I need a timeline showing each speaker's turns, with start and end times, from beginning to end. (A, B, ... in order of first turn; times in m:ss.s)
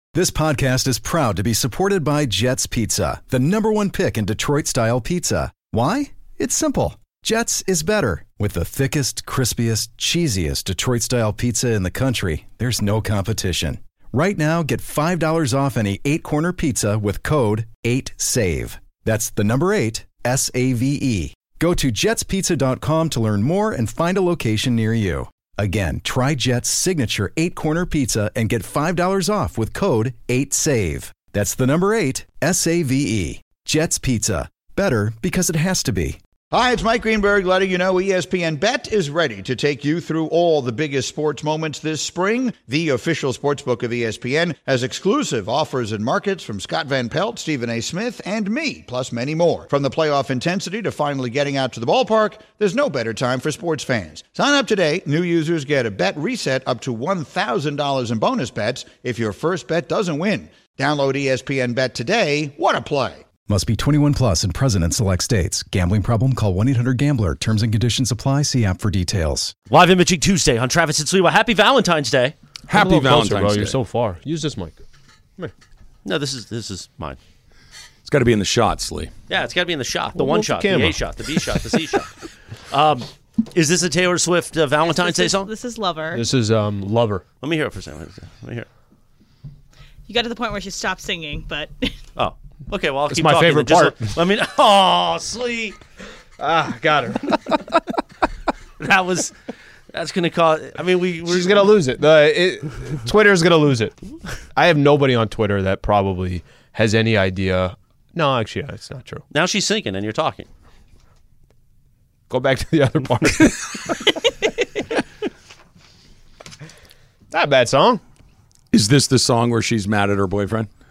0:00.1-0:36.2 A
0:36.5-1:03.2 B
1:03.5-1:09.5 A
1:09.7-1:12.3 C
1:12.7-1:13.8 D
1:12.7-1:14.8 E
1:16.0-1:17.2 C
1:18.0-1:19.1 D
1:19.3-1:22.1 C
1:20.1-1:21.1 E
1:22.7-1:25.5 C
1:24.8-1:26.3 F
1:26.1-1:27.2 E
1:27.4-1:28.7 C
1:30.1-1:31.9 F
1:32.2-1:35.8 C
1:33.1-1:34.2 E
1:36.4-1:37.4 E
1:38.8-1:39.3 C
1:39.9-1:41.7 C
1:41.2-1:43.9 E
1:44.5-1:49.2 E
1:49.3-1:50.5 C
1:52.3-1:53.6 E
1:57.3-1:58.0 E
1:58.7-2:00.7 D